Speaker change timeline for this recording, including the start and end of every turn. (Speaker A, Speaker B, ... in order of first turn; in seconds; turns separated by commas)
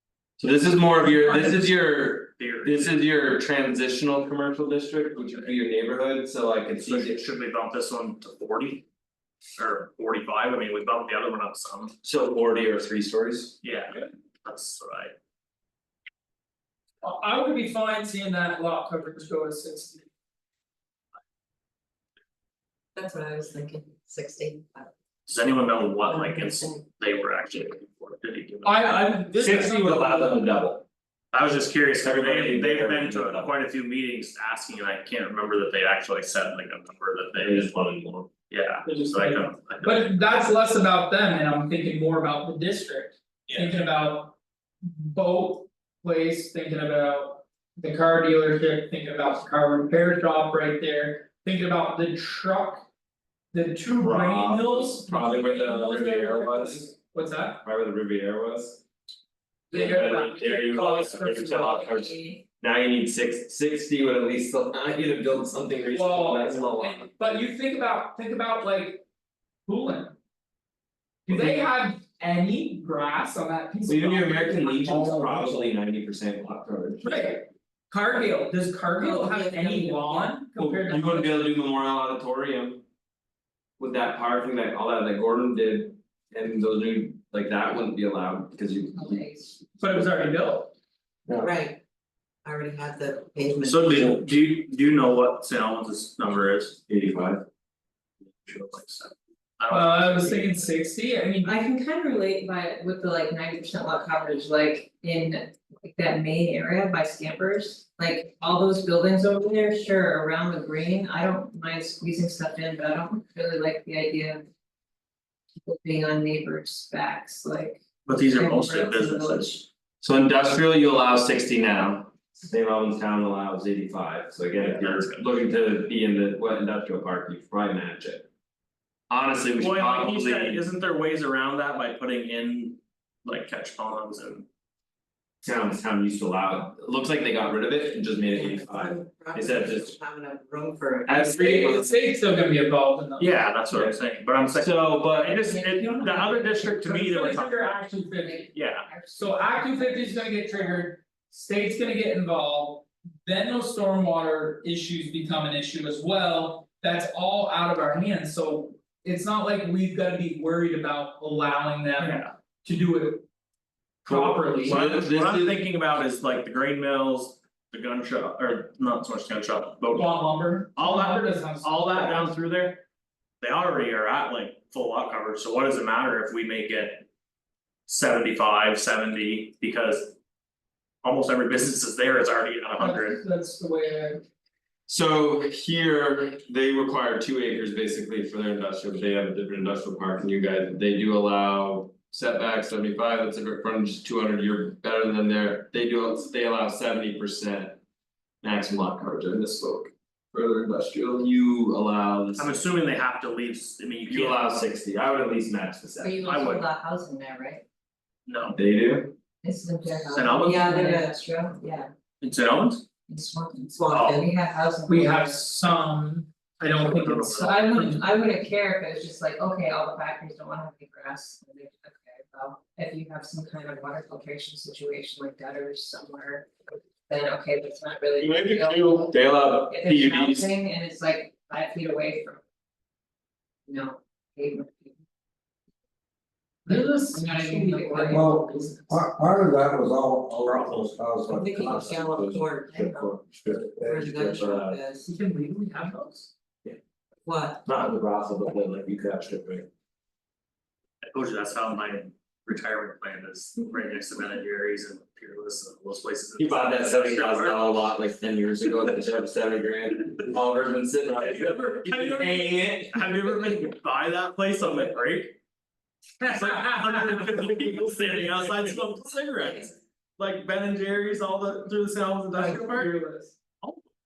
Speaker A: 0.4-7.2, Speaker B: 1.2-1.7, Speaker B: 2.3-3.0, Speaker B: 5.2-5.5, Speaker B: 6.8-8.8, Speaker B: 9.6-11.9, Speaker A: 12.0-13.6, Speaker B: 13.6-15.1, Speaker C: 17.0-20.1, Speaker D: 22.9-24.9, Speaker B: 25.3-30.4, Speaker D: 26.1-26.8, Speaker C: 28.6-30.4, Speaker A: 29.1-30.8, Speaker B: 31.3-37.9, Speaker A: 32.0-33.5, Speaker A: 37.4-38.3, Speaker B: 38.4-40.1, Speaker C: 38.8-52.9, Speaker B: 43.5-43.7, Speaker C: 53.5-57.6, Speaker A: 53.9-56.9, Speaker A: 57.6-58.8, Speaker C: 59.7-61.8, Speaker A: 59.7-67.2, Speaker D: 61.7-62.4, Speaker C: 65.9-69.0, Speaker C: 69.7-70.2, Speaker C: 71.2-75.5, Speaker A: 71.3-71.6, Speaker A: 73.8-77.2, Speaker C: 77.0-81.5, Speaker E: 79.0-80.3, Speaker A: 80.5-82.8, Speaker A: 83.8-89.3, Speaker D: 88.9-89.6, Speaker C: 89.8-90.7, Speaker A: 91.3-91.5, Speaker E: 91.4-91.8, Speaker E: 92.4-94.1, Speaker B: 93.6-96.8, Speaker A: 96.9-97.4, Speaker B: 98.4-100.7, Speaker C: 99.7-101.5, Speaker D: 101.4-114.5, Speaker D: 115.6-119.6, Speaker B: 118.0-119.6, Speaker A: 120.0-128.3, Speaker B: 124.6-125.3, Speaker A: 129.1-130.6, Speaker B: 129.5-134.4, Speaker A: 135.4-140.0, Speaker E: 138.3-141.6, Speaker A: 141.1-142.0, Speaker C: 141.4-143.3, Speaker B: 143.2-147.7, Speaker A: 143.7-145.5, Speaker D: 145.5-146.8, Speaker C: 146.7-148.5, Speaker D: 148.2-150.8, Speaker B: 148.5-148.9, Speaker C: 149.1-163.2, Speaker B: 162.0-162.3, Speaker C: 164.0-164.8, Speaker A: 164.1-165.6, Speaker B: 164.6-170.1, Speaker C: 169.9-172.4, Speaker B: 170.8-172.8, Speaker B: 173.4-177.1, Speaker B: 177.9-180.2, Speaker B: 181.0-183.2, Speaker C: 182.8-184.2, Speaker A: 184.9-197.8, Speaker A: 198.4-202.6, Speaker B: 202.3-204.4, Speaker A: 204.1-206.2, Speaker D: 206.0-207.6, Speaker B: 206.2-206.7, Speaker B: 208.3-208.6, Speaker A: 208.5-209.1, Speaker D: 209.4-211.9, Speaker B: 210.1-211.1, Speaker B: 212.2-212.8, Speaker D: 213.1-215.4, Speaker E: 213.7-214.0, Speaker B: 213.9-214.3, Speaker C: 214.9-218.1, Speaker B: 216.8-217.6, Speaker D: 217.3-232.4, Speaker A: 228.2-230.5, Speaker D: 233.7-235.0, Speaker C: 236.7-239.0, Speaker D: 236.7-238.7, Speaker F: 238.1-244.1, Speaker E: 241.3-243.0, Speaker D: 242.8-243.0, Speaker E: 243.8-245.1, Speaker A: 244.1-244.8, Speaker C: 245.0-246.3, Speaker E: 247.2-247.6, Speaker A: 247.6-249.7, Speaker B: 251.0-257.8, Speaker A: 256.4-263.0, Speaker B: 261.1-265.4, Speaker C: 266.2-267.3, Speaker B: 266.3-272.9, Speaker A: 267.3-268.7, Speaker C: 272.3-273.4